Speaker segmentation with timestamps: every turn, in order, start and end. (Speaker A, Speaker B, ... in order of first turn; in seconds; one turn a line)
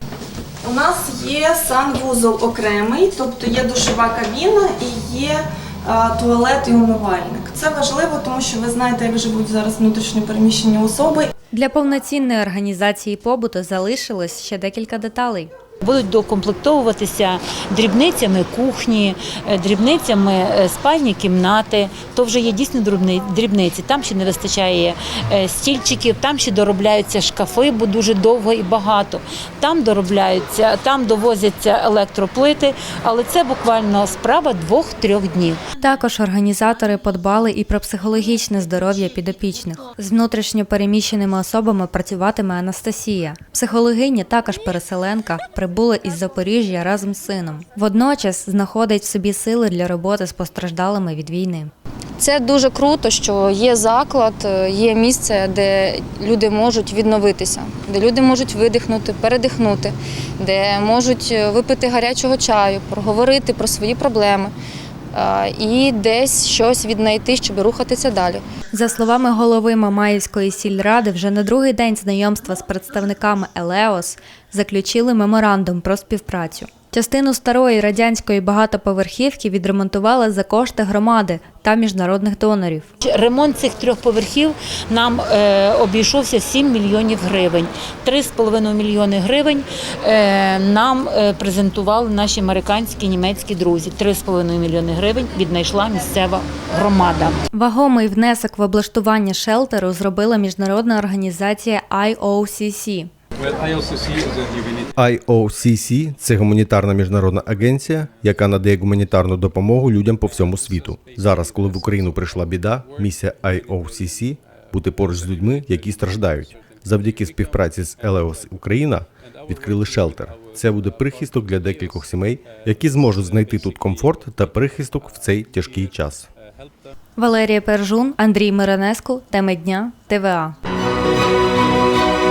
Speaker A: 0.6-11.3
Speaker B: 11.5-15.5
Speaker C: 15.8-35.6
Speaker B: 35.8-51.7
Speaker D: 52.2-64.5
Speaker D: 65.1-68.4
Speaker B: 68.7-82.9
Speaker C: 83.0-97.4
Speaker B: 97.5-103.1
Speaker E: 105.0-126.3
Speaker B: 127.2-130.6